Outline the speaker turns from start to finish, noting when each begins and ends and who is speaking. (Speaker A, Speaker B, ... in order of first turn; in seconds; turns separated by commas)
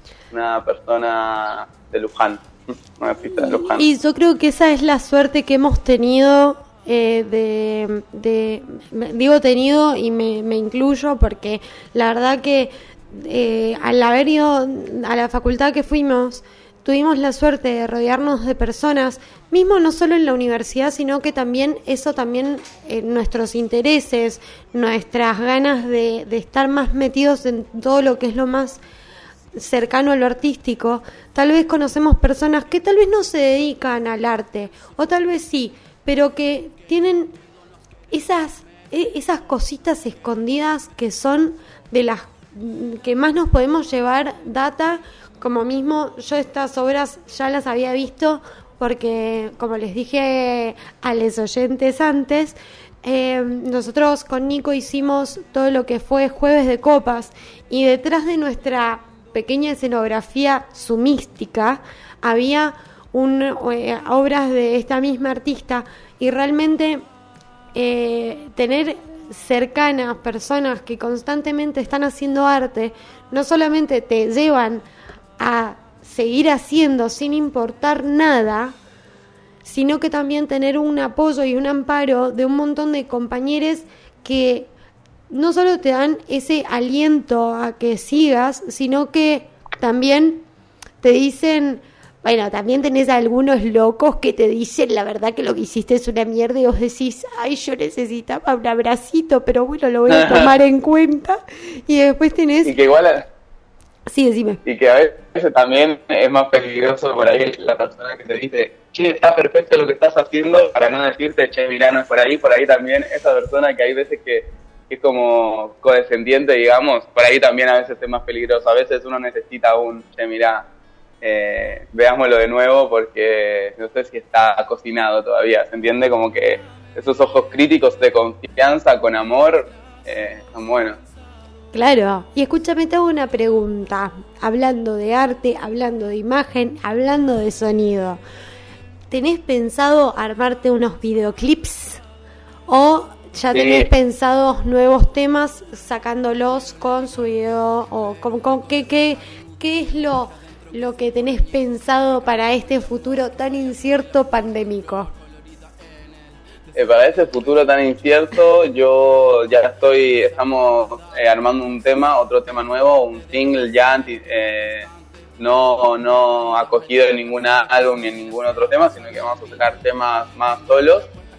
Speaker A: 0.3-3.9, Speaker B: 3.3-28.8, Speaker B: 29.6-37.3, Speaker B: 38.1-67.0, Speaker B: 67.7-74.8, Speaker B: 75.4-78.7, Speaker B: 79.6-84.7, Speaker B: 85.3-90.4, Speaker B: 91.0-102.7, Speaker A: 100.1-100.5, Speaker A: 102.6-103.3, Speaker B: 104.1-104.6, Speaker A: 104.6-120.7, Speaker A: 121.2-131.0, Speaker B: 131.7-138.2, Speaker B: 139.1-142.0, Speaker B: 142.7-155.1, Speaker A: 143.5-143.9, Speaker A: 156.7-171.1